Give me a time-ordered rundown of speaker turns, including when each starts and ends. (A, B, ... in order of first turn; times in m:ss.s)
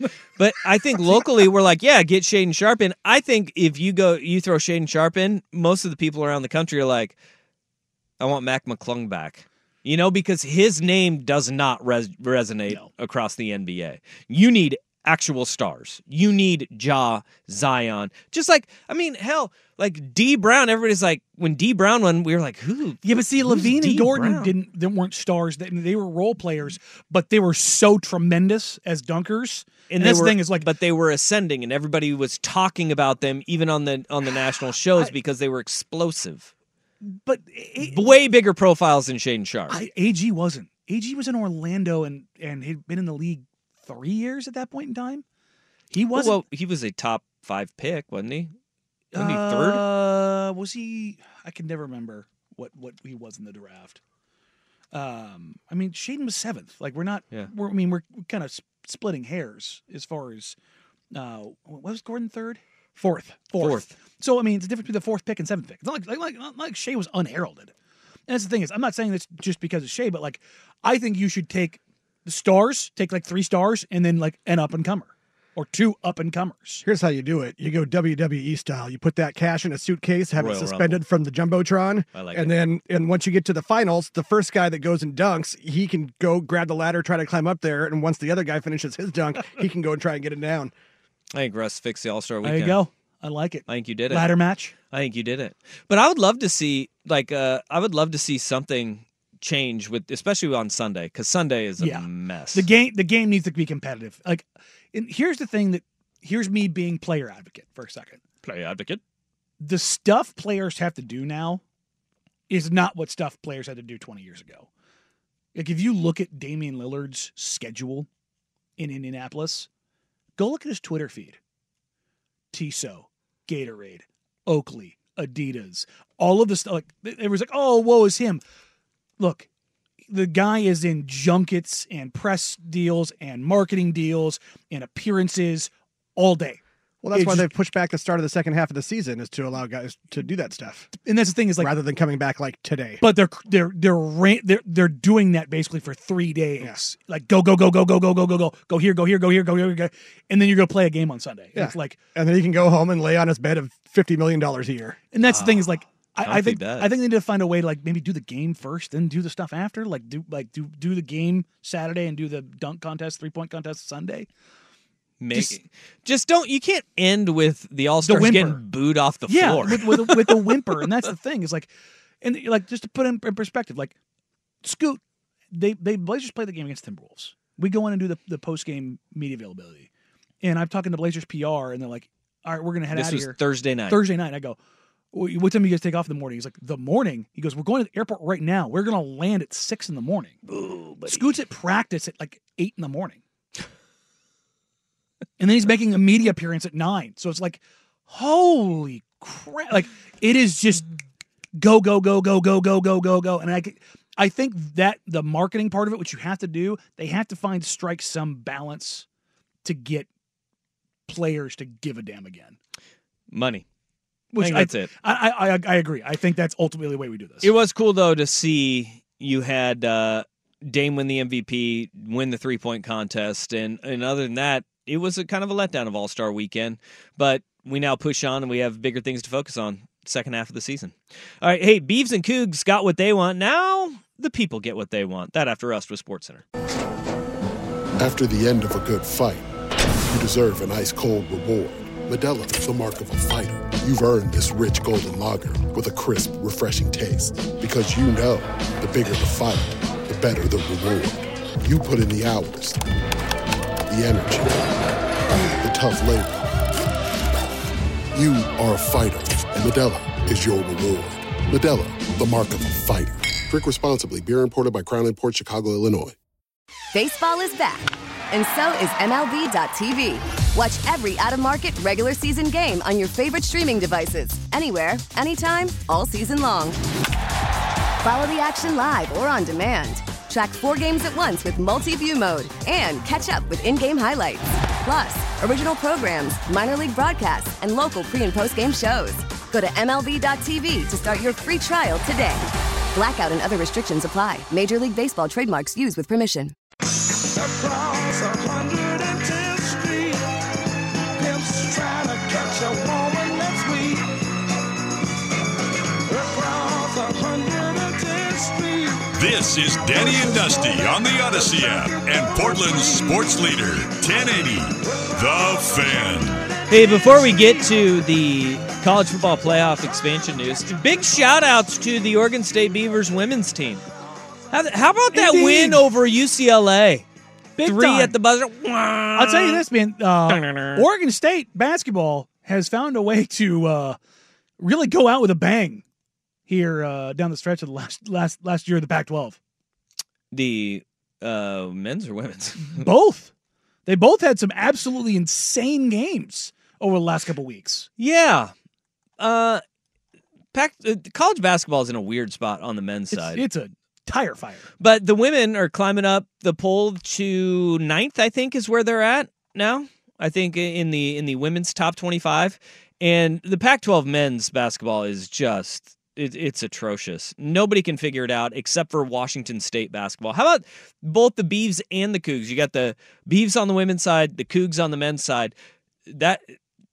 0:00.4-0:07.2 A
0:01.0-0:01.3 B
0:08.2-0:24.5 A
0:23.0-0:30.7 B
0:29.9-0:36.5 A
0:37.0-0:38.1 B
0:37.8-0:39.8 A
0:39.7-0:45.2 B
0:45.9-0:46.4 B
0:46.1-0:48.5 A
0:49.1-0:54.0 B
0:49.2-0:49.8 A
0:54.9-1:00.6 B
1:01.1-1:07.7 B
1:03.6-1:03.9 A
1:08.3-1:16.8 B
1:16.8-1:30.7 C
1:20.4-1:21.0 A
1:22.1-1:22.6 A
1:31.3-1:32.8 A
1:32.4-1:34.7 B
1:33.7-1:34.4 A
1:34.9-1:42.7 A
1:41.8-1:48.2 B
1:48.4-1:49.0 A
1:49.6-1:51.6 B
1:52.5-1:54.7 B
1:55.6-1:58.1 B
1:58.8-1:59.7 B
2:00.4-2:01.4 B
2:02.5-2:08.4 B
2:09.2-2:09.5 B
2:10.1-2:16.6 B
2:17.0-2:20.9 C
2:17.1-2:17.5 B
2:20.9-2:21.7 B
2:21.6-2:23.0 C
2:23.0-2:32.0 B
2:31.6-2:35.0 C
2:35.1-2:44.3 B
2:35.2-2:36.9 A
2:45.2-2:50.6 A
2:48.0-2:48.6 B
2:49.3-2:51.7 B
2:52.2-2:53.9 B
2:54.6-2:55.0 B
2:55.5-2:59.9 B
3:00.4-3:04.6 B
3:02.9-3:04.0 A
3:05.1-3:10.4 B
3:10.5-3:11.3 A
3:11.1-3:13.2 B
3:15.4-3:20.8 B
3:21.6-3:29.1 B
3:29.6-3:30.1 B
3:31.1-3:32.6 B
3:33.3-3:33.6 A
3:34.3-3:37.5 B
3:34.4-3:34.9 A
3:37.4-3:56.4 A
3:58.0-3:59.5 D
4:00.1-4:12.8 D
4:13.9-4:16.5 D
4:18.1-4:26.2 D
4:26.9-4:36.8 E
4:38.0-4:56.6 E
4:57.6-5:00.0 F
5:01.3-5:03.8 F
5:06.3-5:08.9 F
5:09.1-5:16.6 G
5:16.7-5:23.8 A
5:24.5-5:27.1 A
5:25.1-5:25.8 B
5:27.6-5:28.2 B
5:27.6-5:29.6 A
5:29.2-5:34.0 B
5:30.3-5:30.8 A
5:34.6-5:35.8 B
5:36.5-5:39.4 B
5:40.3-5:42.9 A
5:42.6-5:43.3 B
5:43.9-5:47.9 B
5:48.0-5:48.5 A
5:49.2-5:49.6 A
5:50.5-5:53.4 A
5:53.1-5:54.7 B
5:54.8-6:15.5 A
6:16.1-6:16.5 A